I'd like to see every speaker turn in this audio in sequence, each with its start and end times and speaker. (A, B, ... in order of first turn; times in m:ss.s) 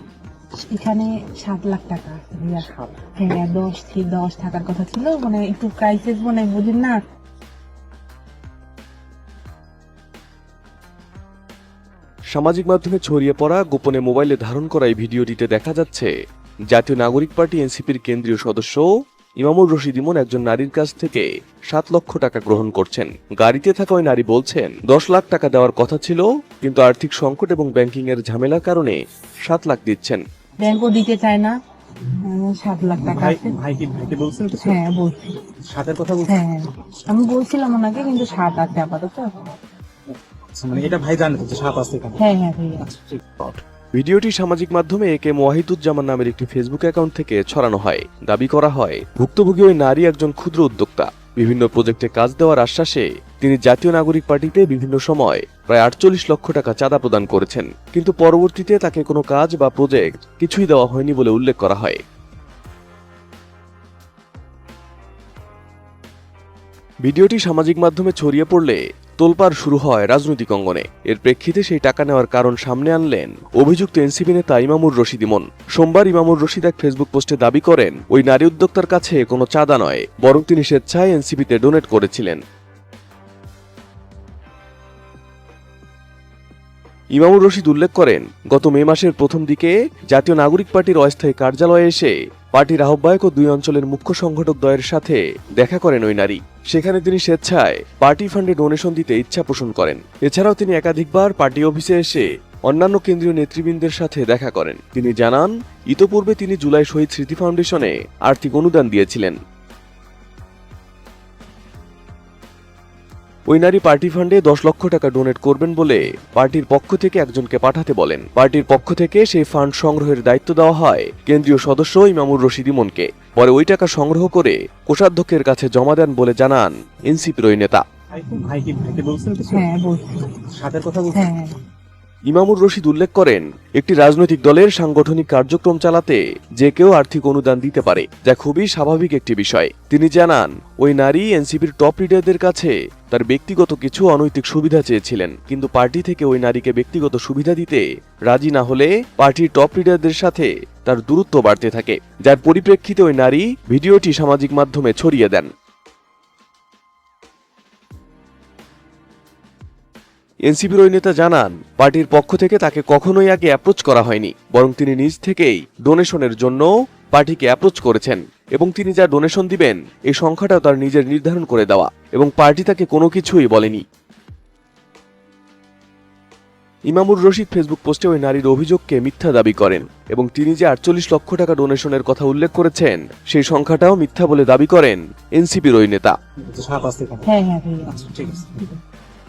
0:00.7-0:07.0 A
0:02.7-0:03.0 B
0:12.3-0:16.1 C
0:16.7-0:18.9 C
0:19.4-0:30.2 C
0:30.6-0:31.6 A
0:32.2-0:33.6 A
0:33.0-0:34.9 B
0:34.6-0:35.4 A
0:35.7-0:36.4 B
0:36.2-0:39.2 A
0:40.6-0:42.2 B
0:42.2-0:42.9 A
0:43.0-0:43.6 B
0:44.0-1:02.0 C
1:07.0-1:22.4 C
1:27.1-1:49.4 C
1:53.5-2:07.8 C
2:08.1-2:09.8 B
2:09.5-2:10.3 A
2:10.5-2:11.3 B
2:11.1-2:11.5 A
2:12.3-2:35.5 C
2:40.5-2:53.8 C
2:56.9-3:06.1 C
3:06.5-3:07.3 B
3:07.2-3:08.1 A
3:07.9-3:08.7 B